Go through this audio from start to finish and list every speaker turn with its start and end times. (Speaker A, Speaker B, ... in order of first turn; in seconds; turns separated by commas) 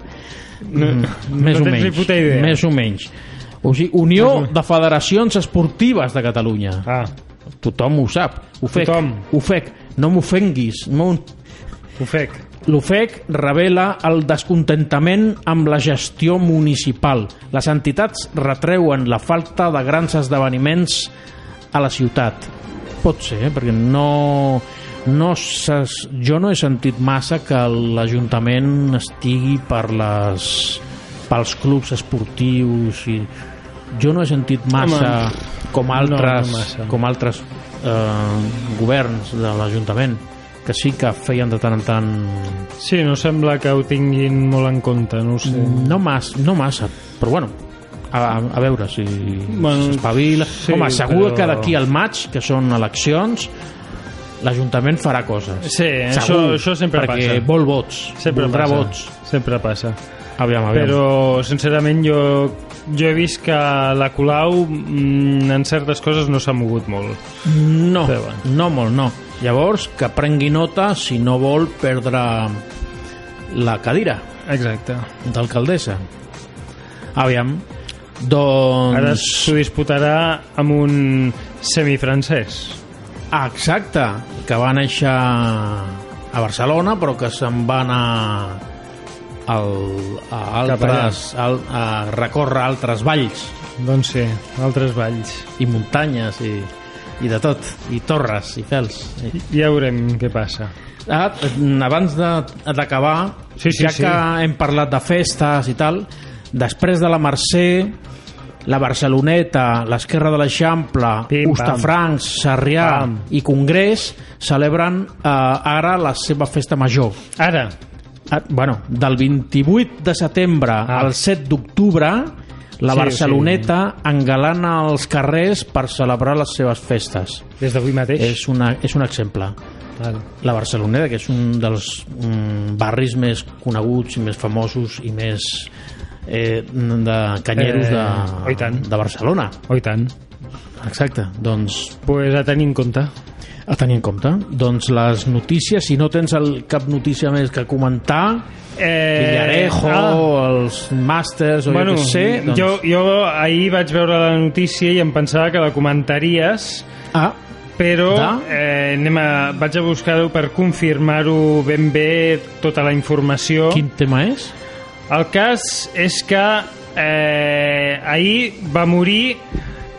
Speaker A: 0.7-2.6, Speaker B: 0.7-3.1, Speaker B: 3.6-6.9, Speaker A: 4.2-4.5, Speaker A: 6.9-7.1, Speaker B: 7.6-11.3, Speaker A: 8.7-9.2, Speaker A: 12.0-12.4, Speaker B: 12.6-21.1, Speaker B: 21.7-33.3, Speaker B: 33.9-42.7, Speaker A: 34.8-35.2, Speaker A: 35.9-37.0, Speaker A: 42.8-46.0, Speaker B: 45.5-47.6, Speaker B: 48.1-53.5, Speaker A: 49.5-51.7, Speaker B: 54.4-59.1, Speaker A: 55.6-57.5, Speaker A: 58.2-60.0, Speaker B: 60.4-61.0, Speaker A: 60.7-67.2, Speaker B: 67.5-72.6, Speaker A: 68.0-68.4, Speaker B: 73.5-74.2, Speaker A: 74.5-75.1, Speaker B: 75.2-76.0, Speaker B: 77.2-77.7, Speaker B: 78.2-79.5, Speaker A: 78.9-82.8, Speaker B: 83.3-88.6, Speaker B: 89.5-93.5, Speaker A: 90.7-91.2, Speaker A: 93.8-95.5, Speaker B: 95.6-99.3, Speaker A: 99.3-100.7, Speaker B: 101.1-108.0, Speaker A: 103.6-104.2, Speaker B: 108.7-117.2, Speaker A: 111.3-111.9, Speaker A: 112.8-113.3, Speaker A: 117.4-117.7, Speaker B: 118.3-127.5, Speaker A: 122.9-123.7, Speaker A: 127.6-128.4, Speaker B: 128.2-129.6, Speaker A: 130.0-130.3, Speaker B: 130.4-135.7, Speaker B: 136.3-139.6, Speaker A: 137.6-138.8, Speaker A: 139.7-140.1, Speaker B: 140.8-142.0, Speaker A: 142.1-143.1, Speaker B: 143.7-148.5, Speaker A: 148.8-150.3, Speaker B: 149.2-152.8, Speaker A: 151.7-156.9, Speaker A: 157.8-163.8, Speaker B: 158.1-158.5, Speaker B: 163.7-164.5, Speaker A: 165.1-169.4